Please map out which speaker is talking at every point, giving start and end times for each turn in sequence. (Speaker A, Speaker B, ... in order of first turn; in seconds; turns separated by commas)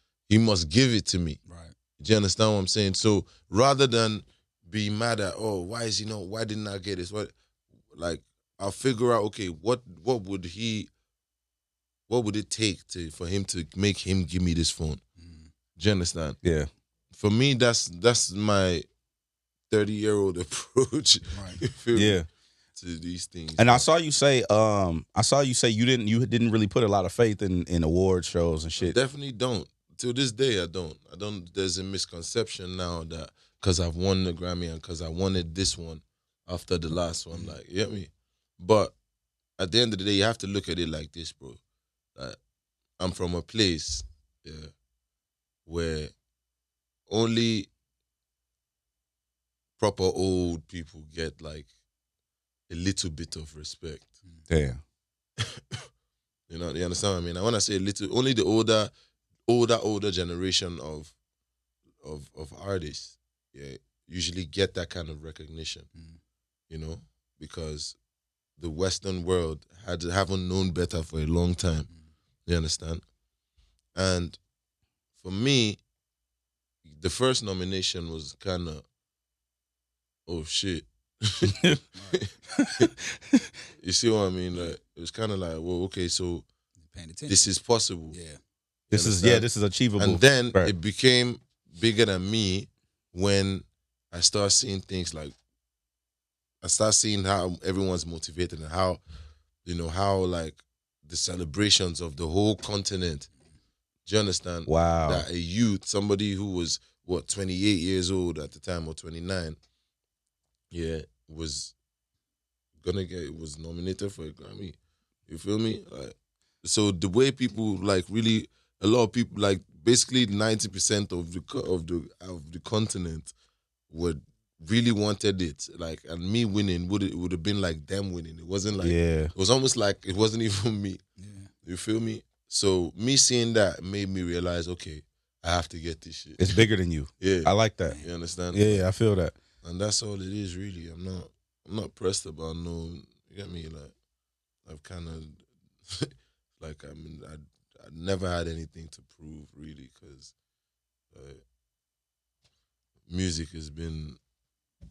Speaker A: 0.3-1.4, Speaker B: 1.5-1.7, Speaker A: 2.0-7.3, Speaker A: 7.9-10.9, Speaker A: 12.1-15.0, Speaker B: 15.2-15.5, Speaker A: 15.8-16.4, Speaker C: 16.4-16.7, Speaker A: 17.1-18.9, Speaker A: 19.7-22.2, Speaker B: 21.3-21.6, Speaker C: 21.9-22.3, Speaker A: 22.8-23.9, Speaker C: 23.6-29.0, Speaker A: 28.8-39.0, Speaker A: 39.6-41.6, Speaker A: 43.0-44.7, Speaker A: 45.7-46.1, Speaker A: 47.1-47.7, Speaker A: 49.8-51.7, Speaker A: 52.7-54.1, Speaker C: 54.5-54.8, Speaker A: 55.4-55.8, Speaker A: 56.5-58.9, Speaker A: 59.5-61.1, Speaker A: 62.0-65.9, Speaker A: 66.7-68.0, Speaker A: 68.6-71.9, Speaker A: 72.5-73.0, Speaker A: 74.0-74.4, Speaker A: 75.2-75.8, Speaker A: 76.9-78.8, Speaker A: 80.3-81.6, Speaker C: 81.5-81.8, Speaker B: 82.0-82.2, Speaker A: 82.1-82.9, Speaker C: 82.5-83.5, Speaker A: 83.8-86.5, Speaker B: 86.9-87.5, Speaker A: 87.3-88.2, Speaker B: 88.1-88.4, Speaker A: 88.9-89.5, Speaker C: 88.9-90.7, Speaker A: 90.0-95.3, Speaker A: 96.6-99.0, Speaker A: 99.7-103.3, Speaker A: 104.1-109.6, Speaker C: 104.7-105.3, Speaker A: 110.7-111.8, Speaker A: 112.8-114.8, Speaker A: 115.3-123.3, Speaker A: 123.9-131.0, Speaker C: 128.8-129.3, Speaker B: 131.2-131.5, Speaker A: 131.6-136.7, Speaker C: 136.4-138.0, Speaker A: 137.2-138.9, Speaker C: 138.5-139.3, Speaker A: 139.6-143.9, Speaker A: 144.7-150.3, Speaker A: 151.1-151.4, Speaker A: 153.1-154.2